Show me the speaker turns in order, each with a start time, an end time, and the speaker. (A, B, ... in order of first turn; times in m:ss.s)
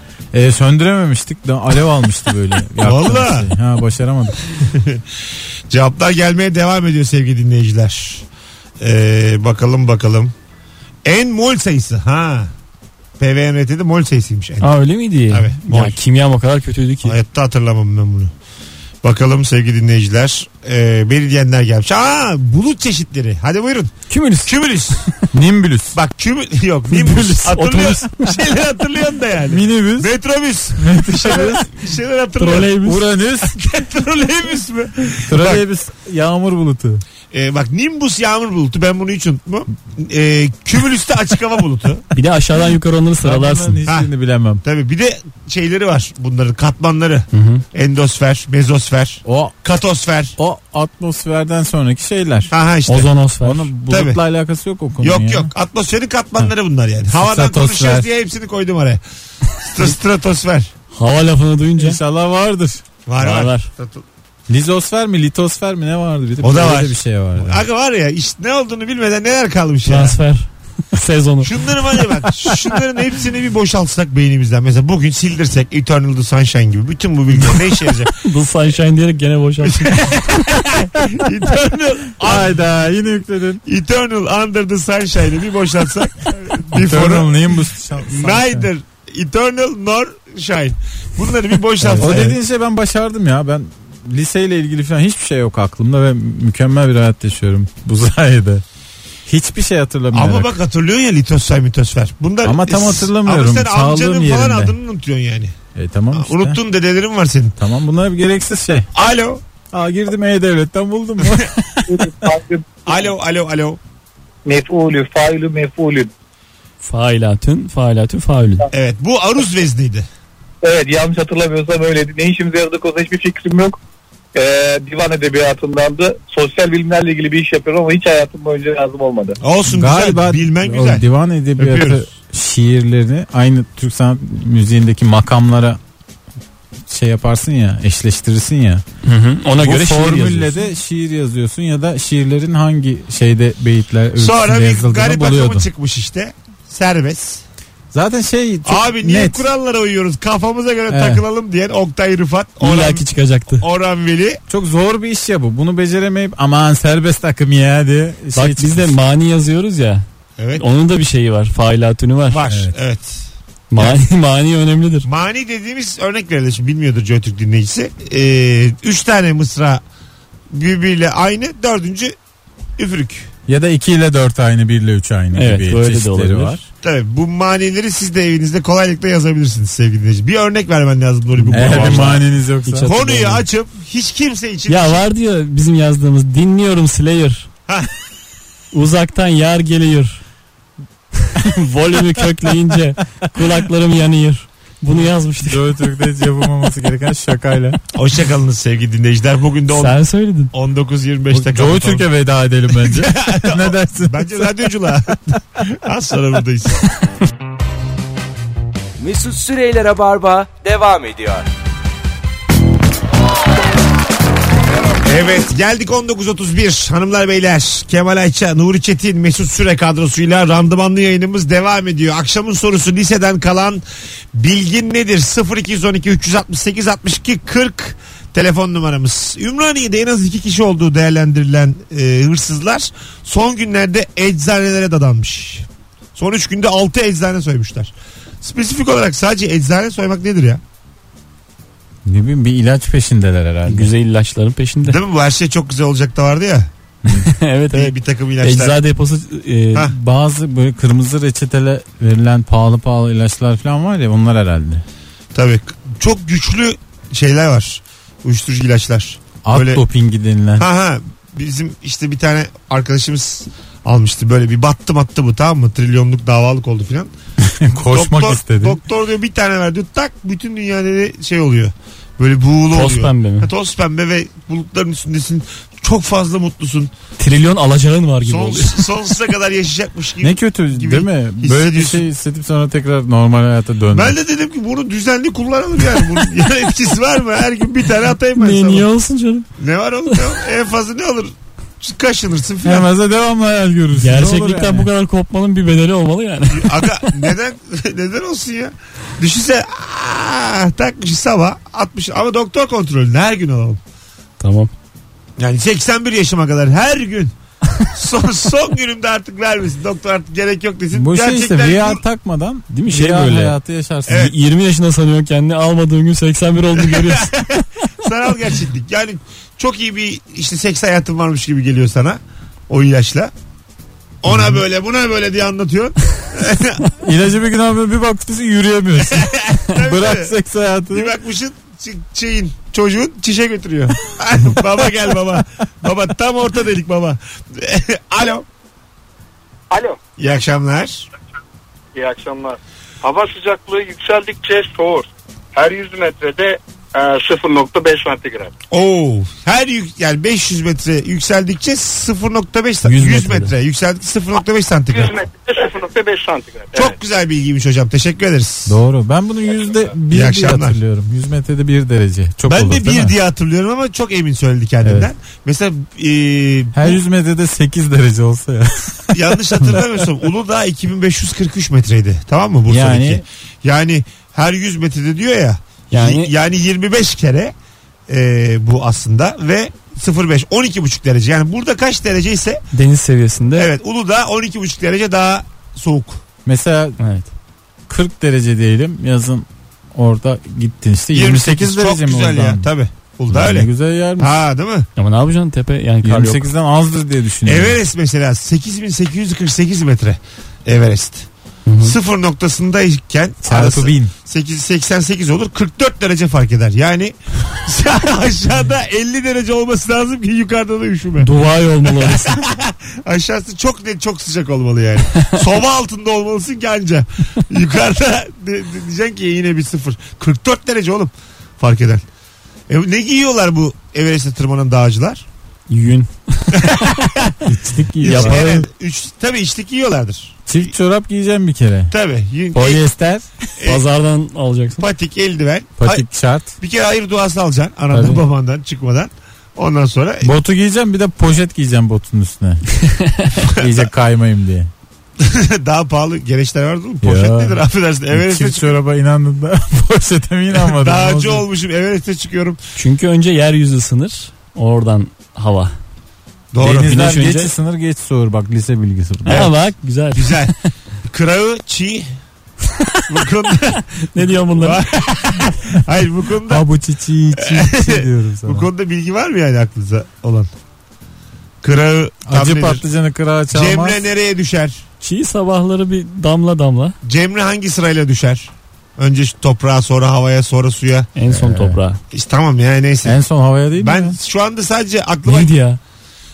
0:00.3-0:04.4 A
0:02.8-0:03.5 B
0:04.7-0:05.0 B
0:05.7-0:08.2 B
0:08.8-0:10.3 B
0:11.0-0:12.5 B
0:13.2-0:14.7 B
0:14.6-0:17.2 C
0:15.3-0:16.0 B
0:17.0-0:18.3 B
0:19.0-0:23.9 B
0:24.1-0:24.5 C
0:24.4-0:25.1 B
0:25.3-0:26.0 A
0:25.9-0:32.7 B
0:26.9-0:28.3 C
0:29.5-0:30.1 A
0:30.8-0:31.6 A
0:32.4-0:33.1 C
0:32.8-0:33.6 A
0:33.5-0:35.6 B
0:35.3-0:37.0 A
0:37.3-0:42.0 B
0:42.1-0:43.8 C
0:43.2-0:44.6 A
0:44.6-0:50.4 B
0:47.3-0:47.6 C
0:49.2-0:49.5 A
0:50.4-0:52.5 A
0:52.5-0:53.1 B
0:52.9-0:53.7 C
0:53.4-0:55.5 A
0:53.9-0:54.2 B
0:55.0-0:59.0 B
0:57.1-0:58.1 A
0:59.6-1:00.7 B
1:00.9-1:02.0 C
1:01.8-1:02.8 A
1:03.1-1:04.0 B
1:03.2-1:03.7 C
1:04.5-1:07.6 A
1:06.4-1:10.2 B
1:09.8-1:11.5 C
1:11.4-1:18.1 B
1:18.2-1:20.2 C
1:19.6-1:22.5 B
1:22.2-1:23.6 A
1:23.6-1:32.4 B
1:26.7-1:28.7 A
1:31.8-1:38.6 A
1:39.2-1:40.5 A
1:40.1-1:45.5 B
1:42.4-1:44.7 A
1:45.7-1:46.6 A
1:46.1-1:47.6 B
1:47.6-1:48.8 A
1:48.9-1:49.4 B
1:49.7-1:52.1 A
1:51.9-1:52.7 D
1:52.8-1:53.8 B
1:54.4-1:56.1 D
1:56.8-1:58.7 C
1:58.7-2:00.0 B
2:00.6-2:03.8 D
2:04.3-2:09.4 D
2:09.4-2:11.0 B
2:09.7-2:15.8 A
2:11.6-2:12.0 B
2:16.9-2:18.8 A
2:19.0-2:20.5 C
2:19.6-2:25.6 A
2:24.2-2:27.4 B
2:27.9-2:29.4 A
2:28.6-2:33.0 B
2:30.9-2:31.2 A
2:32.6-2:33.6 C
2:33.6-2:34.4 B
2:34.5-2:38.9 A
2:38.3-2:42.5 C
2:40.4-2:40.6 B
2:42.3-2:43.2 B
2:43.7-2:45.1 C
2:45.0-2:49.8 B
2:50.5-2:52.1 B
2:52.8-2:53.3 B
2:53.5-2:56.6 A
2:55.3-2:56.6 C
2:56.8-3:02.2 B
3:01.4-3:03.4 C
3:01.5-3:02.9 A
3:02.9-3:05.0 B
3:04.7-3:07.5 C
3:08.7-3:10.2 C
3:11.2-3:15.6 C
3:15.4-3:17.8 A
3:17.9-3:20.0 B
3:19.7-3:20.5 C
3:20.5-3:22.1 B
3:21.3-3:24.5 A
3:22.7-3:26.8 B
3:29.0-3:31.4 E
3:35.0-3:43.8 B
3:44.3-4:00.6 B
4:02.0-4:03.9 A
4:03.6-4:05.0 C
4:04.8-4:06.7 B
4:07.1-4:09.9 C
4:07.7-4:08.8 B
4:09.9-4:14.8 A
4:15.3-4:19.8 B
4:19.4-4:20.6 A
4:20.6-4:27.1 B
4:27.4-4:28.8 A
4:27.8-4:36.9 B
4:32.7-4:33.5 C
4:37.2-4:38.9 C
4:38.2-4:42.0 B
4:40.2-4:44.1 A
4:43.9-4:48.8 B
4:48.4-4:49.5 C
4:49.6-4:52.9 B
4:52.6-4:54.9 A
4:54.0-4:57.1 C
4:56.5-5:03.8 B
5:04.4-5:04.7 C
5:05.4-5:07.3 B
5:07.9-5:12.0 B
5:10.9-5:14.3 A
5:12.7-5:17.3 C
5:14.1-5:14.3 B
5:16.8-5:23.3 B
5:24.2-5:26.8 B
5:27.0-5:31.1 A
5:29.1-5:30.3 B
5:30.9-5:38.4 B
5:39.7-5:40.0 F
5:40.2-5:41.1 B
5:41.9-5:48.5 F
5:48.7-5:55.2 B
5:52.8-5:53.5 C
5:54.9-5:57.0 F
5:56.7-5:58.8 B
5:58.7-6:03.1 A
6:00.1-6:00.8 B
6:02.4-6:07.0 B
6:06.7-6:09.8 A
6:09.1-6:17.5 B
6:12.7-6:13.2 A
6:15.9-6:16.3 C
6:18.1-6:22.6 B
6:22.7-6:23.7 C
6:23.6-6:26.2 B
6:26.4-6:27.0 A
6:27.0-6:27.3 C
6:27.9-6:32.6 A
6:31.1-6:34.9 B
6:33.3-6:34.3 A
6:35.0-6:36.5 C
6:36.0-6:37.8 A
6:37.4-6:41.3 B
6:41.6-6:42.0 C
6:41.8-6:51.3 B
6:43.4-6:44.1 A
6:51.2-6:52.4 C
6:51.9-7:02.0 B
7:02.7-7:05.2 B
7:05.7-7:06.9 C
7:06.5-7:07.3 B
7:07.4-7:08.6 A
7:08.0-7:08.6 C
7:08.0-7:10.7 B
7:10.5-7:11.9 A
7:11.9-7:12.8 B
7:12.5-7:13.2 A
7:13.6-7:13.8 B
7:13.6-7:14.8 C
7:14.8-7:16.0 B
7:15.8-7:16.5 A
7:16.6-7:20.3 B
7:17.9-7:18.2 A
7:20.2-7:22.6 A
7:22.8-7:23.4 C
7:23.5-7:24.7 A
7:23.6-7:23.8 B
7:25.2-7:28.8 B
7:27.0-7:27.6 A
7:28.1-7:31.4 A
7:30.6-7:32.6 B
7:32.8-7:35.7 C
7:36.5-7:37.0 B
7:36.6-7:39.5 A
7:36.7-7:37.5 C
7:39.2-7:40.5 C
7:39.3-7:39.5 B
7:40.1-7:40.5 B
7:41.1-7:42.1 B
7:42.7-7:43.0 C
7:43.1-7:46.6 B
7:44.1-7:44.8 C
7:46.5-7:48.7 A
7:47.4-7:50.5 B
7:51.6-7:52.8 B
7:52.3-7:54.0 A
7:53.5-7:54.8 B
7:55.0-7:56.9 C
7:57.0-8:01.1 B
8:01.2-8:02.0 C
8:01.3-8:01.8 A
8:02.1-8:03.2 B
8:03.0-8:04.2 A
8:03.8-8:05.5 B
8:05.2-8:05.8 C